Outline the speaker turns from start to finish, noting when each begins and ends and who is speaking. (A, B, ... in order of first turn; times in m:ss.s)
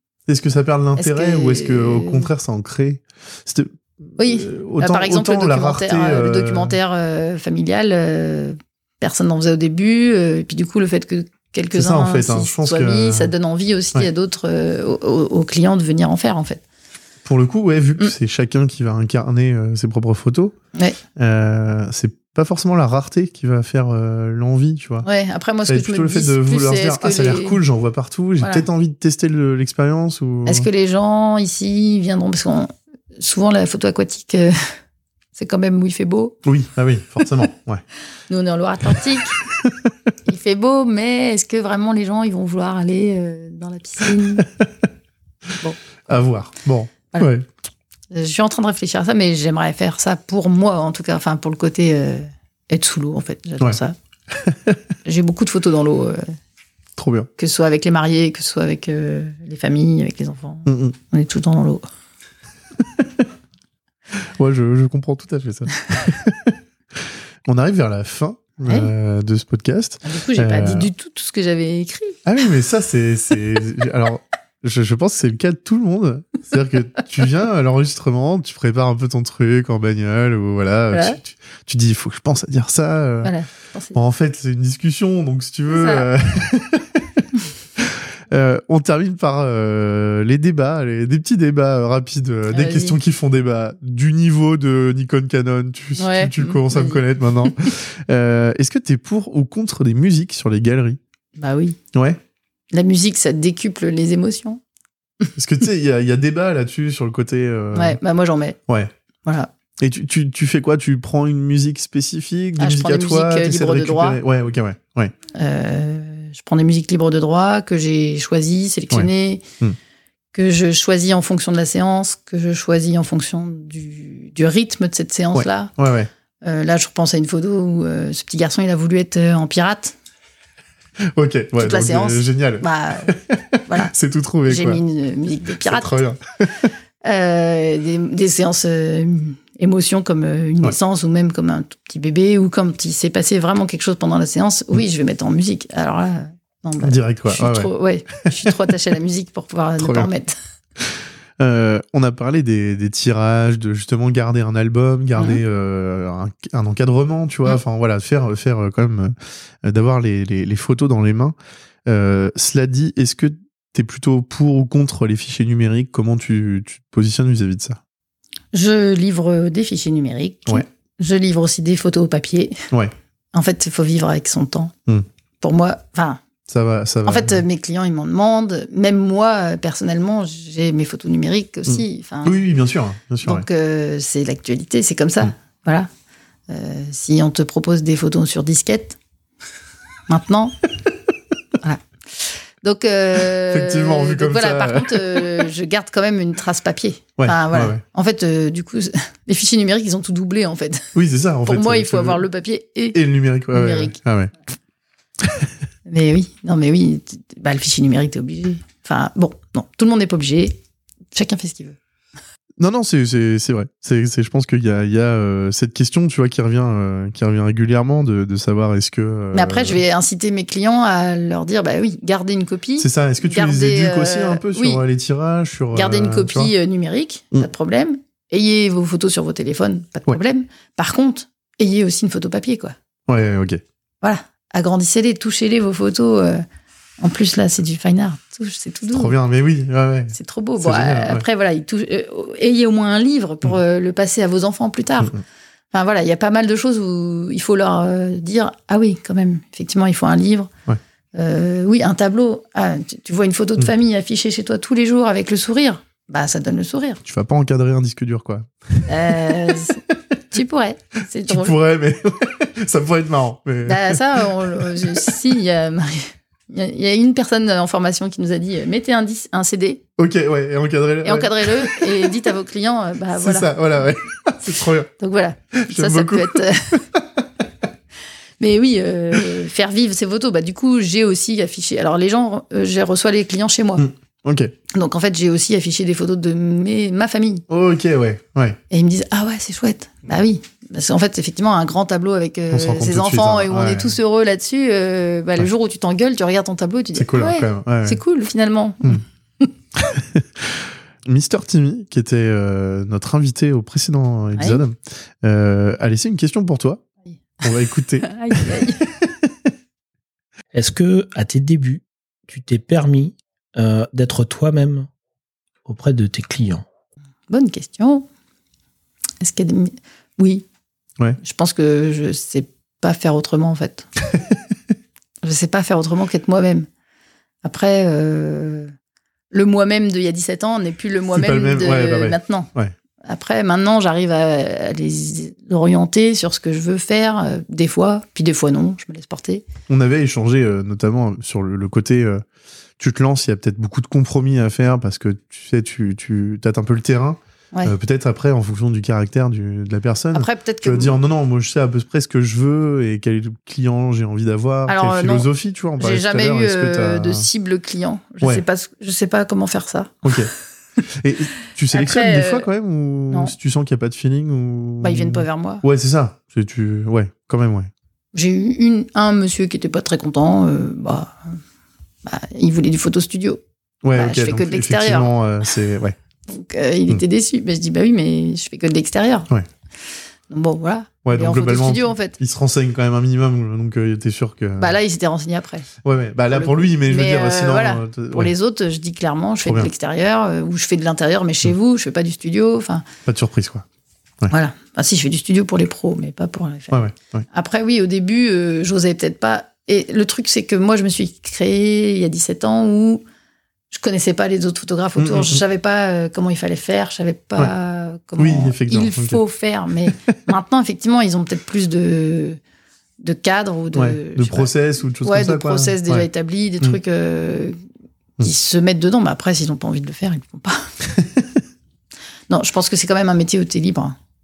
0:00.3-0:06.8 A
0:01.0-0:02.3 B
0:04.2-0:16.6 B
0:11.7-0:13.3 A
0:17.2-0:20.6 A
0:21.2-0:25.1 A
0:25.0-0:27.6 B
0:25.7-0:30.7 A
0:28.4-0:28.7 B
0:30.5-0:34.6 B
0:35.4-0:36.4 B
0:36.4-0:37.8 A
0:38.3-0:39.4 B
0:39.6-0:39.9 A
0:40.3-0:44.5 B
0:44.4-0:44.7 A
0:46.1-0:47.5 A
0:48.1-0:54.0 B
0:54.3-0:54.8 A
0:55.0-0:56.4 B
0:57.0-0:57.3 A
0:57.4-1:01.9 B
1:00.7-1:01.0 A
1:02.8-1:03.2 A
1:04.2-1:10.9 A
1:08.6-1:08.9 B
1:10.0-1:12.2 B
1:12.3-1:23.3 A
1:20.9-1:21.2 B
1:23.2-1:24.0 B
1:24.0-1:41.0 A
1:25.7-1:26.1 B
1:32.5-1:33.0 B
1:36.0-1:37.7 B
1:41.4-1:41.8 B
1:41.9-1:42.2 A
1:42.7-1:44.6 B
1:45.4-1:48.0 A
1:47.7-1:48.6 B
1:49.2-1:49.5 B
1:49.8-1:55.1 A
1:52.6-1:54.2 B
1:55.3-1:59.4 B
2:00.3-2:05.7 B
2:05.3-2:06.1 A
2:06.4-2:10.0 B
2:11.1-2:14.8 A
2:11.6-2:13.9 B
2:14.5-2:16.0 B
2:15.6-2:16.7 A
2:17.0-2:30.4 B
2:26.8-2:27.7 A
2:29.8-2:30.1 A
2:31.4-2:41.4 A
2:41.9-2:47.8 A
2:48.5-2:52.6 B
2:53.3-2:54.7 B
2:55.4-2:56.2 B
2:56.5-2:57.4 A
2:57.1-3:02.4 B
3:01.7-3:03.4 A
3:03.2-3:05.9 B
3:06.5-3:09.0 B
3:10.1-3:10.6 B
3:11.6-3:20.9 B
3:13.4-3:15.5 A
3:17.2-3:17.8 A
3:20.9-3:22.2 A
3:21.4-3:23.0 B
3:22.9-3:24.3 A
3:23.5-3:24.0 B
3:25.9-3:30.6 B
3:31.1-3:31.8 B
3:32.6-3:39.8 A
3:39.3-3:44.8 B
3:42.8-3:46.5 A
3:45.8-3:52.8 B
3:53.1-3:53.6 A
3:54.0-3:56.4 B
3:57.0-3:59.2 B
3:58.9-4:01.2 A
4:00.1-4:05.2 B
4:05.7-4:10.5 B
4:11.1-4:17.0 B
4:17.0-4:20.0 A
4:18.9-4:21.6 B
4:21.3-4:25.2 A
4:23.7-4:29.8 B
4:30.0-4:32.1 A
4:31.0-4:33.6 B
4:33.2-4:34.9 A
4:35.0-4:36.8 B
4:35.5-4:37.2 A
4:38.4-4:43.9 B
4:43.8-4:44.5 A
4:44.7-4:47.4 B
4:47.5-4:48.6 A
4:48.7-4:59.5 B
4:52.5-4:53.9 A
4:57.0-4:58.0 A
4:59.8-5:06.8 A
5:04.4-5:04.6 B
5:07.4-5:09.3 A
5:08.0-5:08.8 B
5:10.5-5:14.9 C
5:15.7-5:16.6 C
5:17.3-5:18.1 B
5:19.2-5:20.5 B
5:21.2-5:23.9 B
5:25.2-5:26.7 B
5:27.4-5:28.7 B
5:29.3-5:32.5 B
5:31.1-5:32.7 A
5:33.0-5:39.4 B
5:39.7-5:42.2 A
5:42.8-5:57.3 A
5:50.1-5:51.0 B
5:54.7-6:00.1 B
6:00.0-6:00.3 A
6:01.0-6:07.7 A
6:01.7-6:02.5 B
6:04.8-6:05.6 B
6:08.1-6:11.4 B
6:12.0-6:13.4 B
6:13.8-6:16.0 A
6:13.9-6:15.1 B
6:16.3-6:19.3 B
6:20.3-6:22.2 B
6:21.0-6:24.7 A
6:24.6-6:25.7 B
6:25.8-6:28.3 A
6:26.3-6:32.8 B
6:29.4-6:29.7 A
6:33.1-6:33.6 A
6:34.3-6:36.8 B
6:36.7-6:37.2 A
6:37.3-6:43.0 B
6:43.7-6:52.4 B
6:45.0-6:45.4 A
6:48.2-6:49.2 A
6:49.9-6:50.2 A
6:53.0-6:57.6 B
6:53.7-6:56.1 A
6:58.2-7:00.7 B
7:01.0-7:01.2 A
7:02.3-7:04.0 B